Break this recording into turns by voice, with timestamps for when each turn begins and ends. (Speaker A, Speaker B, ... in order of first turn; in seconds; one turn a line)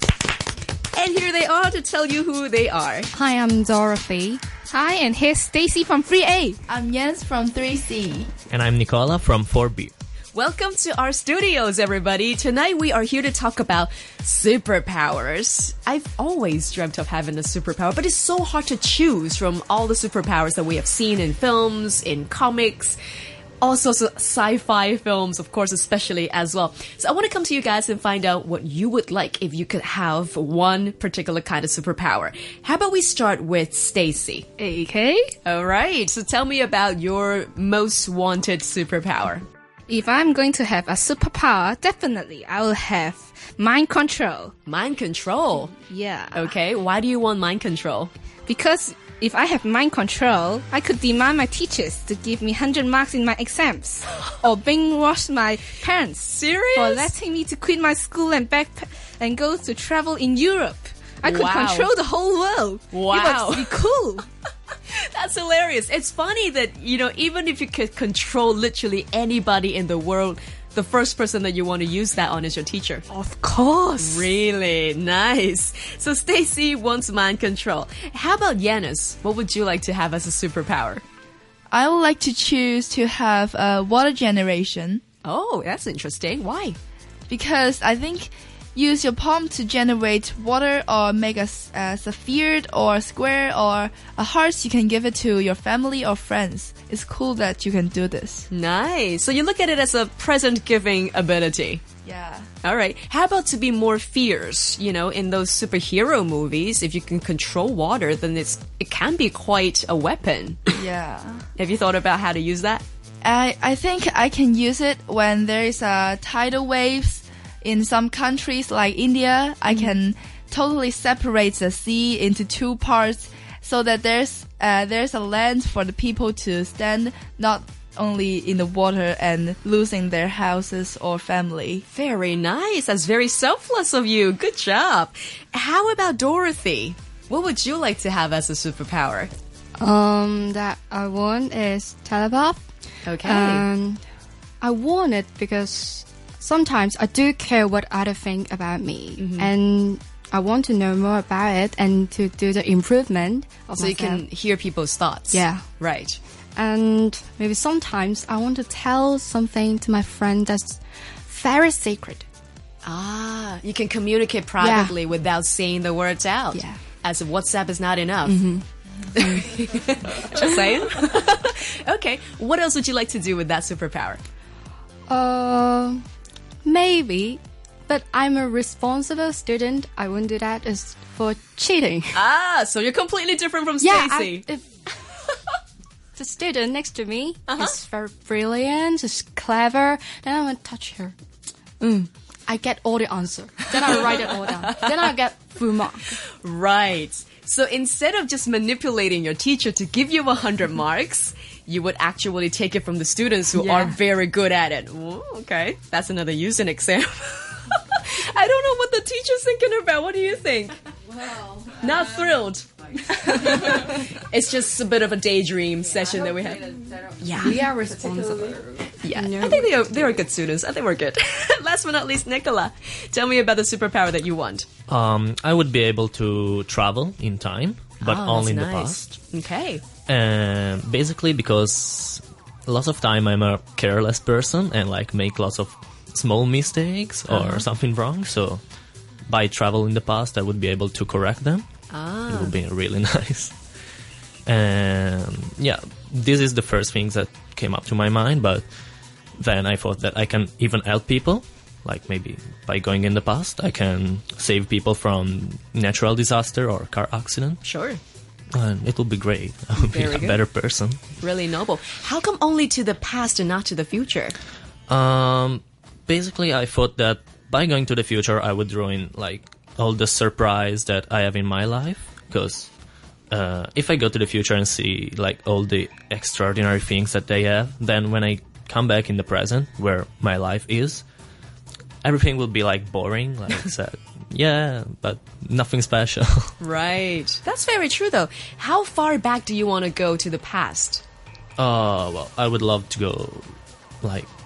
Speaker A: 0.9-3.1
Speaker B: 3.1-4.5
Speaker C: 4.6-6.6
Speaker D: 6.7-8.3
Speaker E: 8.5-9.9
Speaker A: 10.3-23.0
Speaker A: 23.6-34.5
Speaker C: 34.6-35.3
Speaker A: 35.5-39.5
Speaker C: 39.9-44.5
Speaker A: 44.7-45.7
Speaker C: 45.8-46.5
Speaker A: 46.3-48.1
Speaker C: 48.5-64.3
Speaker A: 56.3-57.1
Speaker A: 61.2-61.9
Speaker A: 62.9-63.8
Speaker A: 64.9-73.0
Speaker C: 73.1-74.3
Speaker A: 74.0-81.0
Speaker D: 81.7-85.0
Speaker A: 85.2-86.8
Speaker D: 87.3-98.5
Speaker A: 98.5-101.8
Speaker D: 102.0-102.5
Speaker A: 102.6-110.7
Speaker D: 110.7-111.5
Speaker A: 111.6-112.8
Speaker D: 113.2-131.8
Speaker A: 131.9-139.3
Speaker B: 139.8-142.7
Speaker A: 143.1-143.7
Speaker B: 143.2-144.0
Speaker B: 144.6-154.2
Speaker A: 149.2-149.5
Speaker A: 153.8-156.2
Speaker B: 155.3-155.7
Speaker B: 156.6-162.2
Speaker A: 162.8-168.4
Speaker B: 164.6-165.0
Speaker B: 168.3-168.7
Speaker A: 169.2-174.2
Speaker B: 169.2-169.5
Speaker B: 175.1-176.1
Speaker B: 176.6-182.2
Speaker A: 182.1-184.5
Speaker B: 183.8-184.9
Speaker B: 186.2-191.2
Speaker A: 187.5-187.8
Speaker B: 191.8-196.1
Speaker A: 196.4-210.8
Speaker B: 203.6-203.9
Speaker A: 211.6-217.7
Speaker B: 217.4-219.7
Speaker A: 219.0-224.7
Speaker E: 224.9-229.2
Speaker A: 228.0-229.8
Speaker E: 230.1-238.6
Speaker A: 237.3-237.7
Speaker E: 239.3-241.7
Speaker A: 241.9-242.6
Speaker E: 242.3-243.5
Speaker E: 244.5-248.7
Speaker E: 249.4-257.6
Speaker A: 257.6-258.0
Speaker E: 258.5-261.0
Speaker A: 259.8-260.4
Speaker A: 261.2-264.4
Speaker E: 264.9-272.7
Speaker E: 273.3-281.0
Speaker E: 282.0-286.5
Speaker A: 286.6-291.0
Speaker E: 291.6-293.5
Speaker E: 294.0-294.3